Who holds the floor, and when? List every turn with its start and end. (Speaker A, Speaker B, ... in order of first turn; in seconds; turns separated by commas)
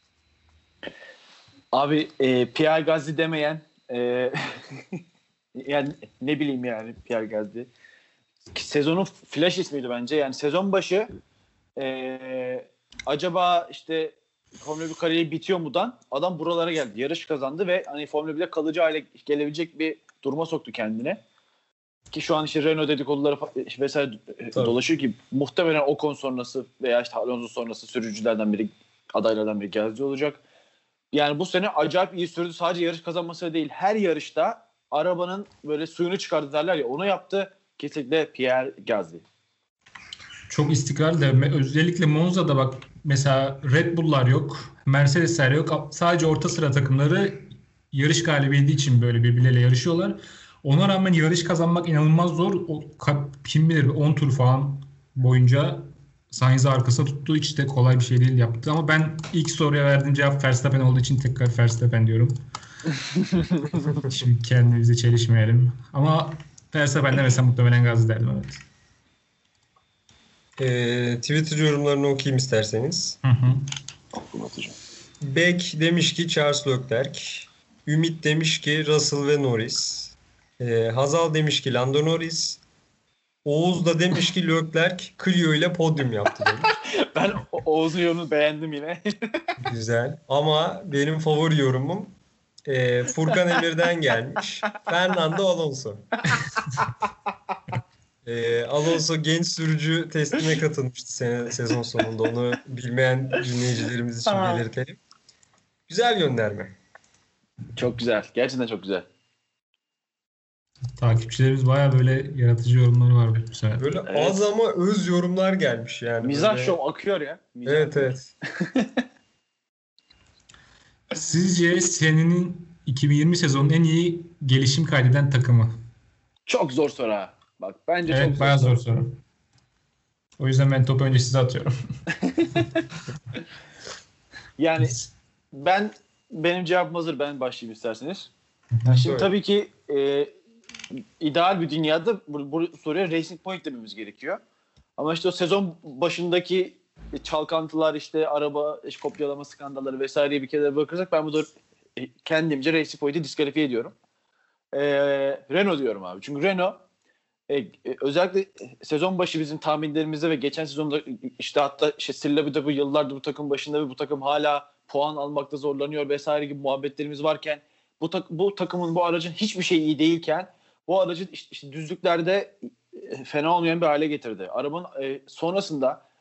Speaker A: 1.7-5.0, Speaker A: 5.5-7.7, Speaker A: 8.5-11.1, Speaker A: 11.8-21.2, Speaker A: 22.1-30.4, Speaker A: 31.1-39.2, Speaker B: 40.5-62.4, Speaker A: 62.9-63.8, Speaker B: 63.9-68.6, Speaker C: 70.6-73.2, Speaker B: 73.2-73.6, Speaker A: 74.1-74.8, Speaker C: 75.2-82.6, Speaker C: 83.4-86.7, Speaker A: 86.8-89.5, Speaker C: 89.6-96.2, Speaker A: 96.3-96.8, Speaker C: 98.2-105.0, Speaker A: 104.3-104.6, Speaker C: 105.9-106.8, Speaker A: 107.7-109.1, Speaker B: 111.0-113.8, Speaker C: 113.8-116.8, Speaker A: 114.1-114.4, Speaker A: 116.2-119.0, Speaker C: 117.6-118.3, Speaker B: 121.1-125.8, Speaker A: 126.5-128.8, Speaker B: 128.1-129.2, Speaker B: 130.4-131.7, Speaker A: 132.2-132.8, Speaker A: 134.6-134.9, Speaker A: 135.5-138.3, Speaker B: 138.8-139.1, Speaker A: 138.9-140.3, Speaker C: 139.0-139.3, Speaker A: 141.2-144.4, Speaker A: 145.0-153.9, Speaker A: 154.7-156.8, Speaker A: 157.5-176.0